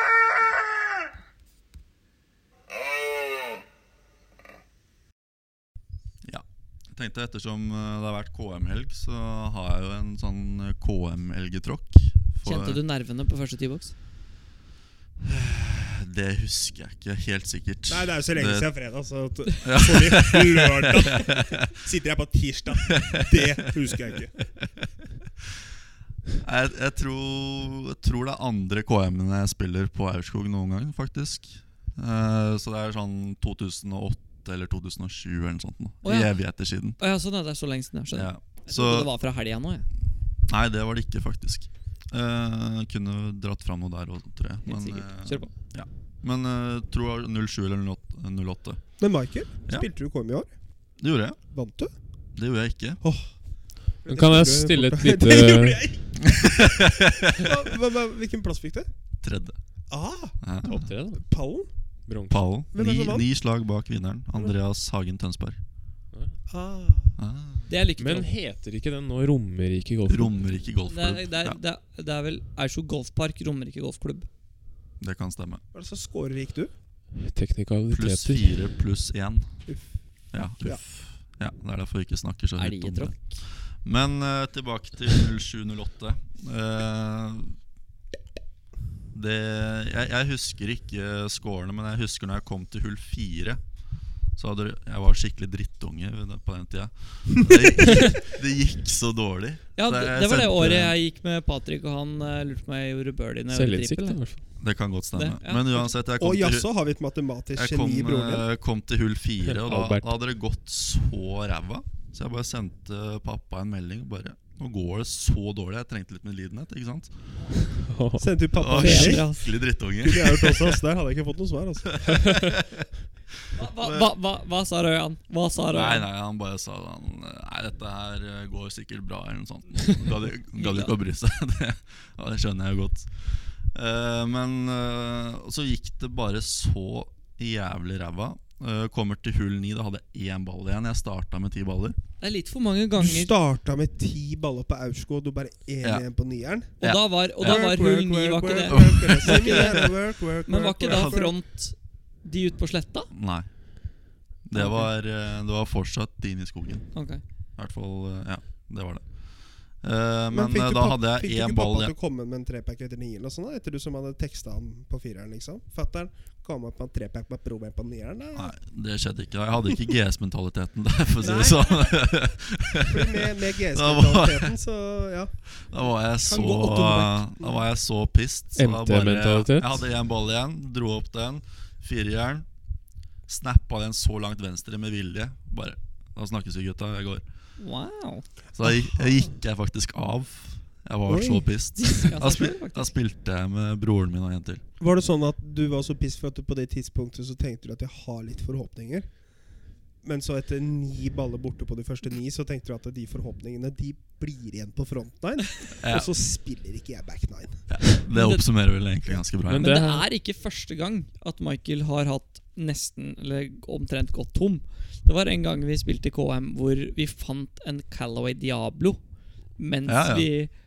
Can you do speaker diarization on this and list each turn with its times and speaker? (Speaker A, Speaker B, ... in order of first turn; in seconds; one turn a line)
Speaker A: 6.2-12.8
Speaker B: 12.4-13.9
Speaker A: 15.2-18.7
Speaker C: 17.9-24.4
Speaker A: 19.6-21.5
Speaker A: 26.4-37.0
Speaker B: 36.0-39.9
Speaker A: 38.1-39.1
Speaker A: 40.4-49.1
Speaker B: 44.6-45.5
Speaker C: 49.0-50.5
Speaker A: 51.0-51.4
Speaker C: 51.5-51.9
Speaker A: 52.3-53.0
Speaker C: 53.0-58.9
Speaker D: 54.1-55.8
Speaker A: 56.4-57.5
Speaker A: 59.2-59.6
Speaker C: 59.9-60.4
Speaker A: 60.4-60.9
Speaker D: 60.6-61.2
Speaker C: 61.2-61.7
Speaker D: 62.0-62.4
Speaker A: 62.3-65.6
Speaker C: 62.7-63.3
Speaker C: 66.5-67.2
Speaker A: 67.2-67.7
Speaker B: 67.7-68.3
Speaker D: 68.0-70.3
Speaker A: 70.1-71.6
Speaker B: 70.9-74.3
Speaker A: 75.0-75.6
Speaker C: 75.7-76.7
Speaker D: 77.2-78.5
Speaker A: 77.9-79.7
Speaker C: 79.7-80.8
Speaker A: 80.3-87.6
Speaker B: 82.6-83.4
Speaker A: 89.1-93.6
Speaker A: 94.3-101.0
Speaker B: 99.8-104.5
Speaker D: 103.5-104.4
Speaker A: 104.6-106.7
Speaker B: 105.1-105.9
Speaker C: 106.2-108.5
Speaker A: 107.5-117.1
Speaker D: 109.5-110.1
Speaker D: 117.7-118.3
Speaker C: 118.2-119.4
Speaker A: 118.5-120.8
Speaker B: 118.7-119.5
Speaker C: 120.0-122.2
Speaker A: 121.8-122.8
Speaker B: 123.5-126.1
Speaker A: 123.8-124.1
Speaker A: 125.7-142.0
Speaker B: 130.5-130.9
Speaker B: 142.2-143.3
Speaker C: 143.0-146.8
Speaker A: 146.8-147.7
Speaker B: 146.8-153.1
Speaker C: 147.4-151.3
Speaker A: 148.7-149.7
Speaker A: 150.9-151.2
Speaker A: 153.1-157.0
Speaker B: 154.5-154.9
Speaker B: 156.9-157.2
Speaker A: 157.6-161.9
Speaker C: 160.3-168.5
Speaker A: 168.3-174.5
Speaker C: 171.2-172.1
Speaker C: 172.8-175.7
Speaker A: 175.5-182.5
Speaker C: 176.2-177.6
Speaker D: 178.5-179.8
Speaker A: 183.2-187.2
Speaker B: 187.6-188.3
Speaker A: 188.5-194.6
Speaker C: 188.6-189.3
Speaker C: 191.1-191.6
Speaker B: 191.8-192.9
Speaker C: 194.8-199.2
Speaker C: 200.0-207.7
Speaker A: 205.8-206.1
Speaker A: 207.7-209.8
Speaker B: 208.1-208.4
Speaker D: 209.5-210.0
Speaker B: 209.5-219.0
Speaker B: 219.6-220.5
Speaker A: 219.9-220.3